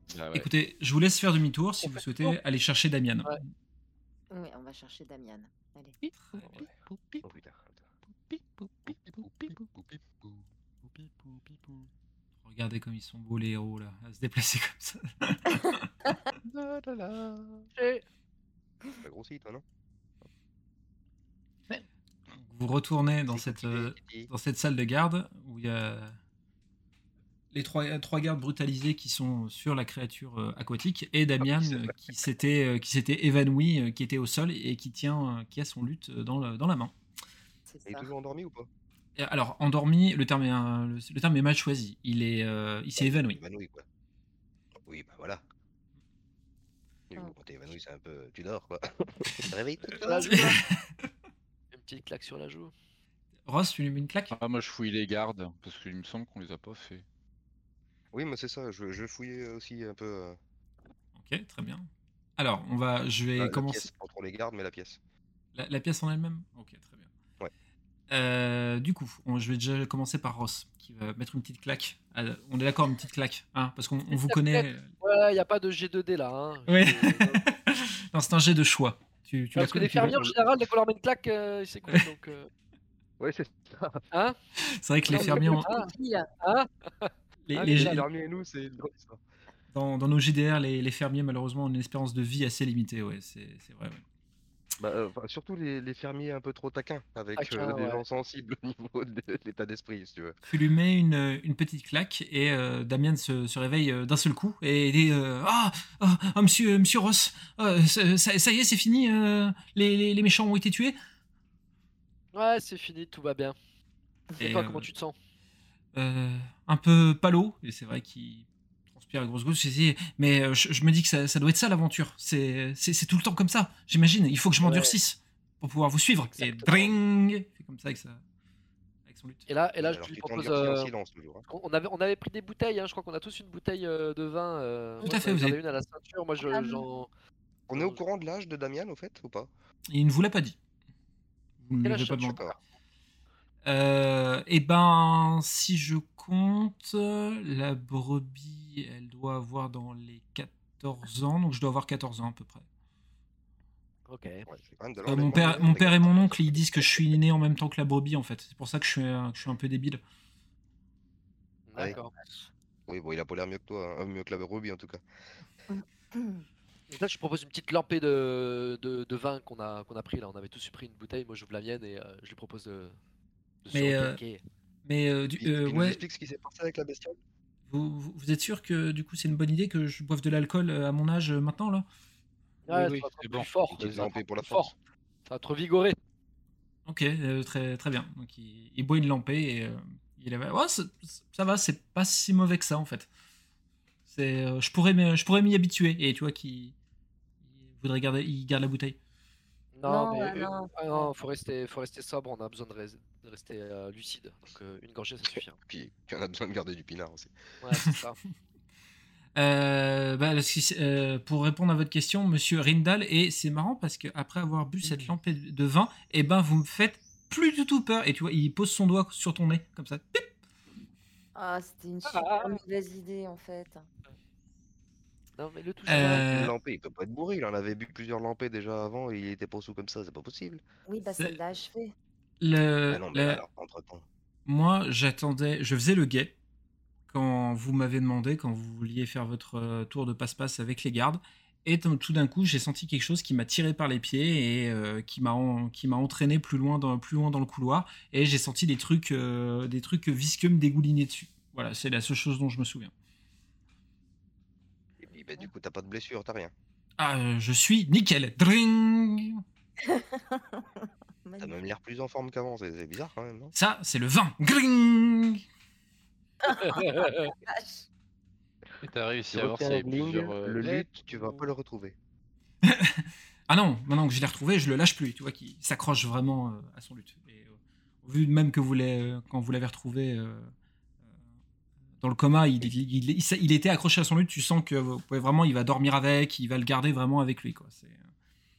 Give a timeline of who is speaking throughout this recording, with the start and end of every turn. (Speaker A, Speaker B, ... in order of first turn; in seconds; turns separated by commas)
Speaker A: 0.1-0.5, Speaker B: 0.3-3.4, Speaker C: 1.8-2.4, Speaker D: 4.3-6.0, Speaker A: 6.1-7.2, Speaker E: 7.2-7.8, Speaker E: 8.9-10.2, Speaker A: 9.2-9.5, Speaker A: 10.9-11.6, Speaker B: 12.4-15.9, Speaker E: 16.6-17.6, Speaker C: 17.8-18.0, Speaker E: 19.0-19.6, Speaker B: 22.4-26.1, Speaker E: 23.3-24.3, Speaker B: 27.5-36.9, Speaker E: 31.4-31.9, Speaker D: 37.6-38.1, Speaker E: 37.9-38.7, Speaker B: 39.1-43.4, Speaker E: 43.0-43.9, Speaker E: 44.9-45.4, Speaker E: 47.1-50.5, Speaker C: 49.9-50.6, Speaker B: 50.3-50.7, Speaker C: 51.7-52.7, Speaker B: 53.5-54.3, Speaker A: 54.3-57.0, Speaker E: 58.1-60.4, Speaker B: 61.1-63.9, Speaker E: 63.4-65.0, Speaker B: 65.5-67.1, Speaker B: 68.1-74.9, Speaker C: 74.1-77.4, Speaker B: 76.7-80.3, Speaker C: 79.6-82.5, Speaker E: 83.2-84.0, Speaker B: 84.6-85.7, Speaker D: 85.1-86.3, Speaker C: 85.1-88.0, Speaker B: 87.5-88.0, Speaker E: 87.7-89.2, Speaker B: 89.7-94.0, Speaker E: 94.8-100.4, Speaker C: 97.4-98.0, Speaker B: 100.5-111.0, Speaker C: 112.3-113.6, Speaker C: 114.4-115.1, Speaker B: 114.4-114.8, Speaker B: 115.9-128.2, Speaker C: 124.6-125.0, Speaker C: 126.3-126.9, Speaker B: 129.1-129.4, Speaker C: 129.5-130.9, Speaker E: 129.8-131.4, Speaker C: 131.5-137.1, Speaker B: 135.0-135.6, Speaker D: 136.4-136.8, Speaker E: 137.7-139.5, Speaker C: 137.7-138.0, Speaker B: 139.9-140.6, Speaker B: 141.6-142.4, Speaker C: 141.8-142.5, Speaker E: 142.2-142.5, Speaker B: 143.7-152.7, Speaker C: 154.1-154.5, Speaker E: 154.5-157.0, Speaker B: 155.1-160.0, Speaker C: 161.7-162.2, Speaker E: 162.9-165.0, Speaker D: 165.7-166.4, Speaker C: 166.9-172.9, Speaker C: 173.6-174.4, Speaker B: 173.7-174.2, Speaker B: 174.8-176.0, Speaker E: 175.4-177.2, Speaker B: 177.7-181.8, Speaker C: 182.7-184.7, Speaker A: 182.7-184.1, Speaker E: 183.8-184.7, Speaker C: 185.3-185.9, Speaker B: 186.8-193.1, Speaker B: 194.1-196.8, Speaker B: 197.4-199.0, Speaker C: 199.8-205.6, Speaker D: 199.9-201.1, Speaker E: 205.6-207.4, Speaker C: 207.6-208.2, Speaker B: 209.3-220.2, Speaker D: 221.3-223.8, Speaker C: 222.1-222.6, Speaker C: 225.4-226.4, Speaker B: 225.9-226.5, Speaker E: 225.9-230.6, Speaker D: 230.9-231.9, Speaker B: 231.1-231.3, Speaker B: 232.4-233.4, Speaker E: 232.9-234.1, Speaker B: 234.4-236.3, Speaker B: 237.1-252.9, Speaker E: 255.0-256.5, Speaker B: 257.0-259.4, Speaker D: 259.8-261.6, Speaker E: 261.4-263.5, Speaker B: 263.6-265.4, Speaker D: 266.4-267.9, Speaker C: 266.8-267.3, Speaker A: 268.8-271.5, Speaker E: 269.3-271.9, Speaker B: 272.6-280.5, Speaker B: 282.0-288.1